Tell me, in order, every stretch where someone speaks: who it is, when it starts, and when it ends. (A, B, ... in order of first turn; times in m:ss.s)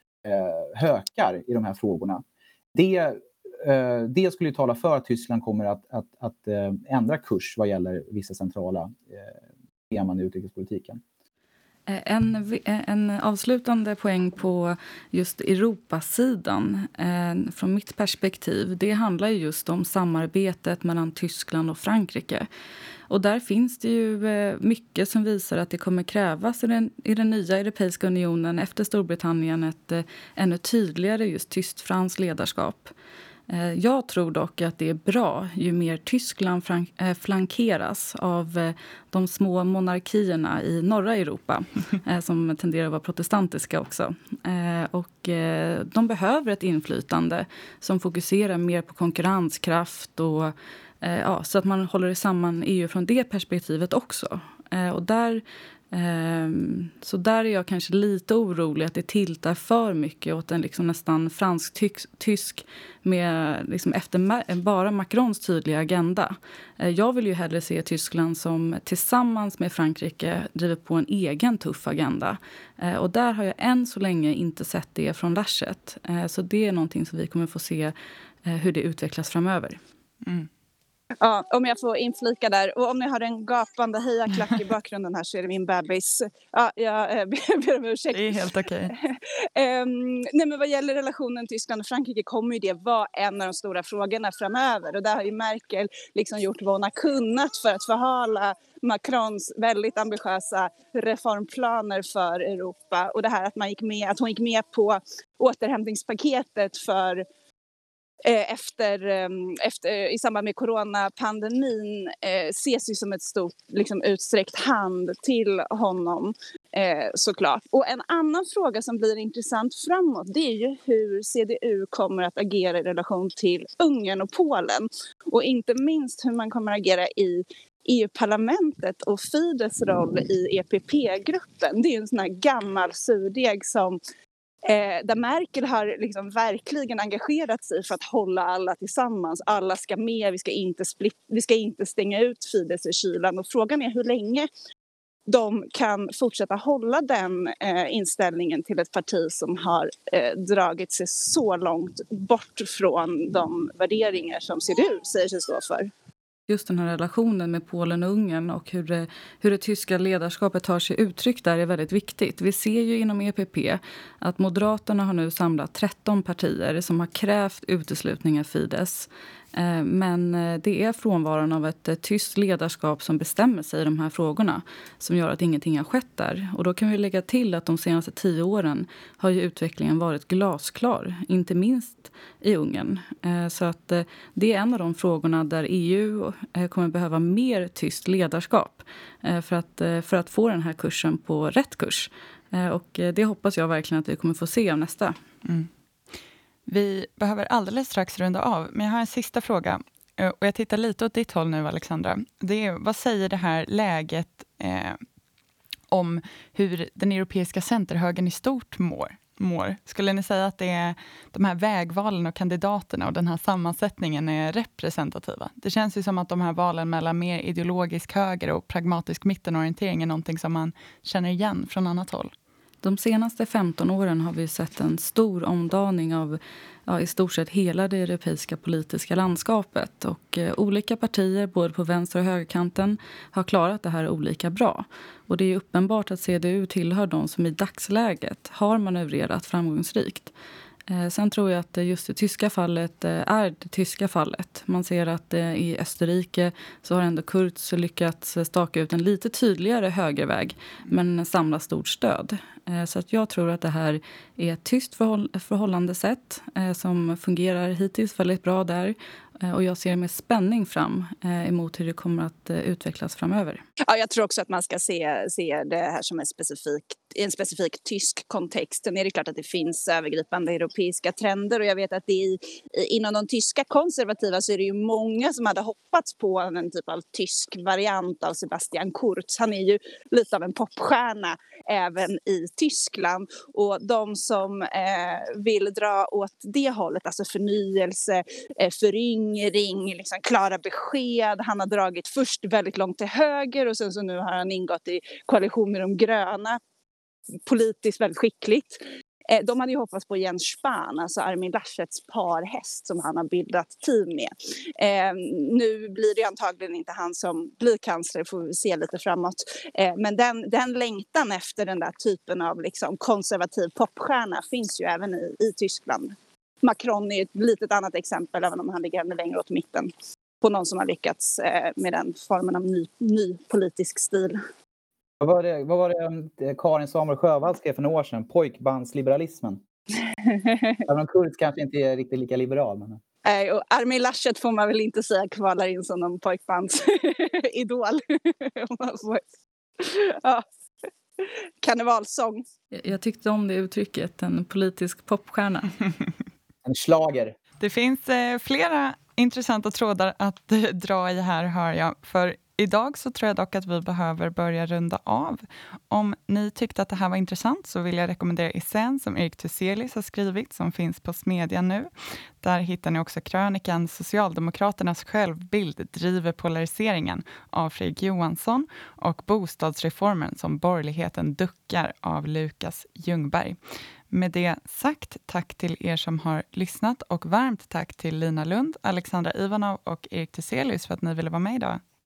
0:00.2-0:02.2 A
0:02.7-0:09.3 A
0:09.9-0:11.0 A
0:11.9-0:22.5 B
0:23.1-0:32.9 B
0:33.5-1:17.9 B
1:18.4-1:19.8 B
1:20.2-1:20.5 C
1:21.2-1:28.4 D
1:28.1-1:28.9 C
1:28.9-1:47.2 D
1:48.2-2:14.0 D
2:14.6-2:24.5 D
2:25.3-2:35.9 D
2:36.5-3:15.2 B
3:15.4-3:15.7 C
3:16.7-3:25.0 C
3:25.9-3:42.3 C
3:42.8-4:00.3 B
4:00.9-4:23.6 B
4:23.8-4:56.6 D
4:57.4-5:24.4 D
5:25.2-5:29.6 A
5:30.8-5:33.0 A
5:33.2-5:39.2 D
5:39.8-5:40.4 D
5:41.2-5:42.4 D
5:42.7-5:45.7 B
5:46.6-5:47.4 A
5:47.6-6:01.9 C
6:02.4-6:13.6 C
6:14.1-6:21.8 C